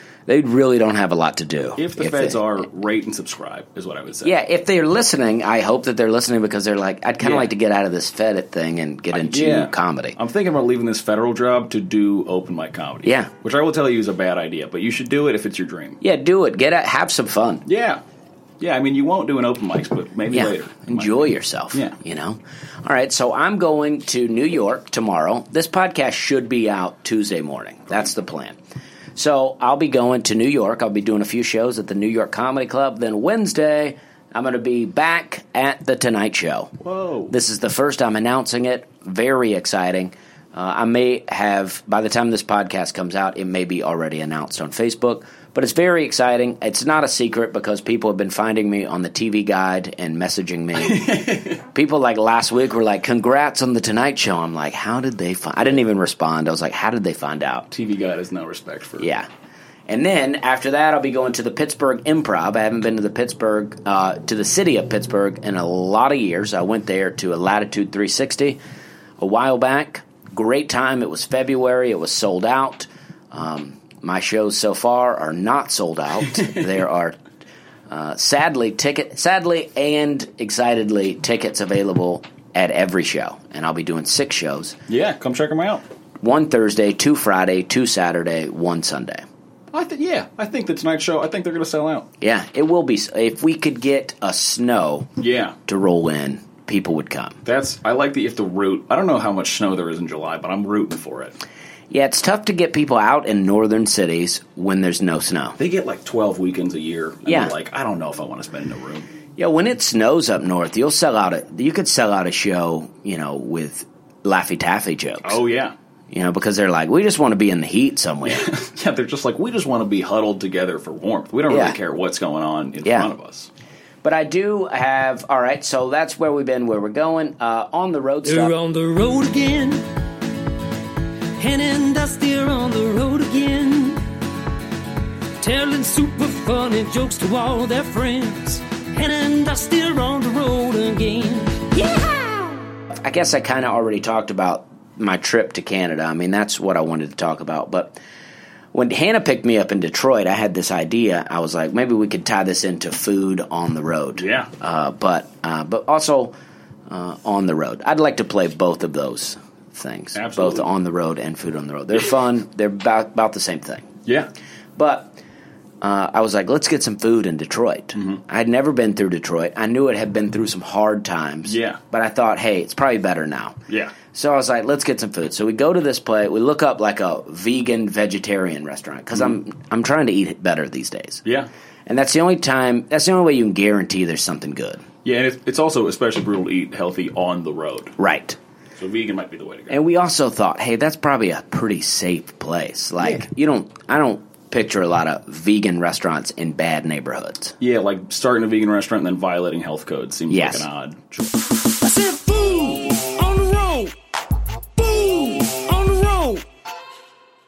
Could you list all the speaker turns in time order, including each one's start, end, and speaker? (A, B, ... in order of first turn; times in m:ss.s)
0:00.3-0:02.4 A
0:01.8-0:04.4 B
0:04.2-0:10.2 A
0:07.2-0:07.5 B
0:09.1-0:16.0 B
0:13.0-0:13.3 A
0:16.0-0:17.7 A
0:17.7-0:18.0 B
0:18.6-0:22.0 B
0:20.3-0:28.6 A
0:29.2-0:36.8 A
0:36.8-0:37.4 B
0:37.3-0:57.7 A
0:50.8-0:51.6 B
0:57.7-0:59.1 B
0:59.0-0:59.3 A
0:59.9-1:08.6 A
1:09.2-1:17.2 A
1:17.9-1:24.8 A
1:24.9-1:25.8 B
1:26.2-1:29.2 A
1:29.7-1:32.1 B
1:32.2-1:35.1 A
1:35.2-1:35.6 B
1:35.7-1:37.4 A
1:37.4-1:41.4 B
1:41.9-1:45.6 A
1:45.6-1:49.1 B
1:47.3-1:47.5 A
1:49.4-1:55.4 A
1:55.2-1:55.8 B
1:56.1-1:58.5 A
1:58.2-2:03.5 B
2:01.5-2:01.8 A
2:02.8-2:03.1 A
2:04.0-2:08.6 A
2:08.2-2:09.8 C
2:11.4-2:14.0 C
2:15.4-2:22.6 C
2:22.9-2:28.0 A
2:28.7-2:36.3 A
2:34.2-2:34.5 B
2:36.9-2:43.9 A
2:40.1-2:40.7 B
2:44.8-2:45.2 A
2:45.8-3:01.2 A
2:48.0-2:48.2 B
2:51.5-2:51.8 B
2:53.7-2:54.0 B
3:01.9-3:04.8 A
3:05.0-3:08.0 B
3:08.0-3:08.4 A
3:08.8-3:09.8 B
3:09.7-3:17.6 A
3:17.6-3:21.4 B
3:20.3-3:20.7 A
3:21.8-3:23.9 C
3:24.8-3:26.4 C